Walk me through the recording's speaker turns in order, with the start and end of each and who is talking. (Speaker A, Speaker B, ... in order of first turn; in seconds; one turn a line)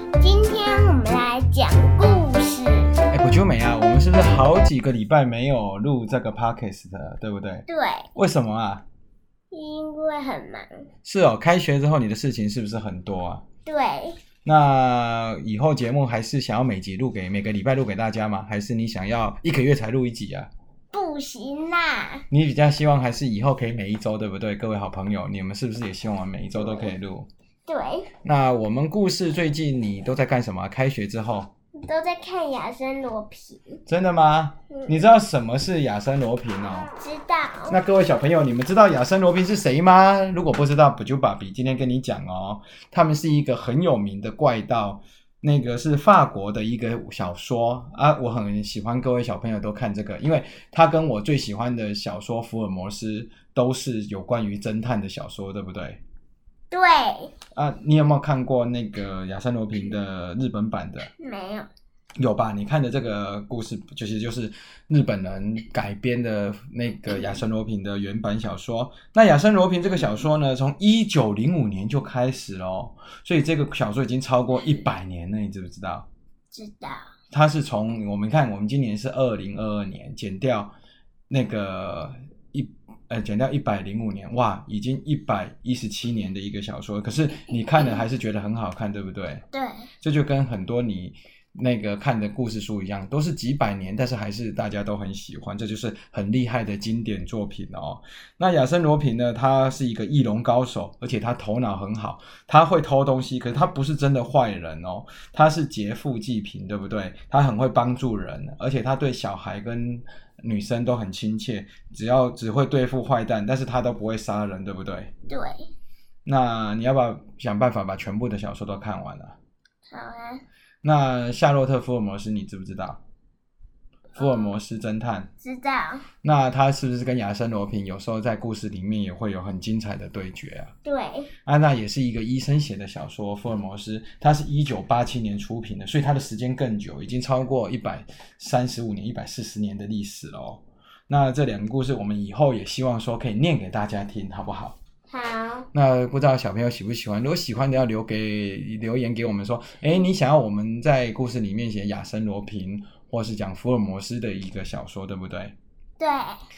Speaker A: 0.2-3.0
Speaker B: 3.1-7.7
Speaker A: 7.7-8.1
Speaker B: 8.2-8.8
Speaker A: 9.5-10.9
Speaker B: 11.1-13.4
Speaker A: 13.7-14.2
Speaker B: 14.4-20.5
Speaker A: 20.9-22.2
Speaker B: 22.3-27.3
Speaker A: 27.7-28.1
Speaker B: 28.2-31.5
Speaker A: 31.8-33.8
Speaker B: 33.9-36.9
Speaker A: 34.7-35.0
Speaker A: 36.9-37.8
Speaker B: 37.7-56.0
Speaker A: 56.7-57.3
Speaker B: 57.5-61.1
Speaker A: 61.2-61.7
Speaker B: 62.2-76.1
Speaker A: 76.5-77.1
Speaker B: 77.3-80.7
Speaker B: 81.3-89.5
Speaker A: 89.5-89.9
Speaker B: 90.0-115.1
Speaker A: 115.3-115.7
Speaker B: 116.2-119.4
Speaker A: 119.9-120.4
Speaker B: 120.8-123.0
Speaker B: 124.2-125.3
Speaker A: 124.2-124.5
Speaker A: 125.4-126.1
Speaker B: 126.2-130.7
Speaker A: 130.8-131.3
Speaker B: 131.5-144.8
Speaker A: 145.1-145.7
Speaker B: 145.7-155.6
Speaker A: 156.0-156.4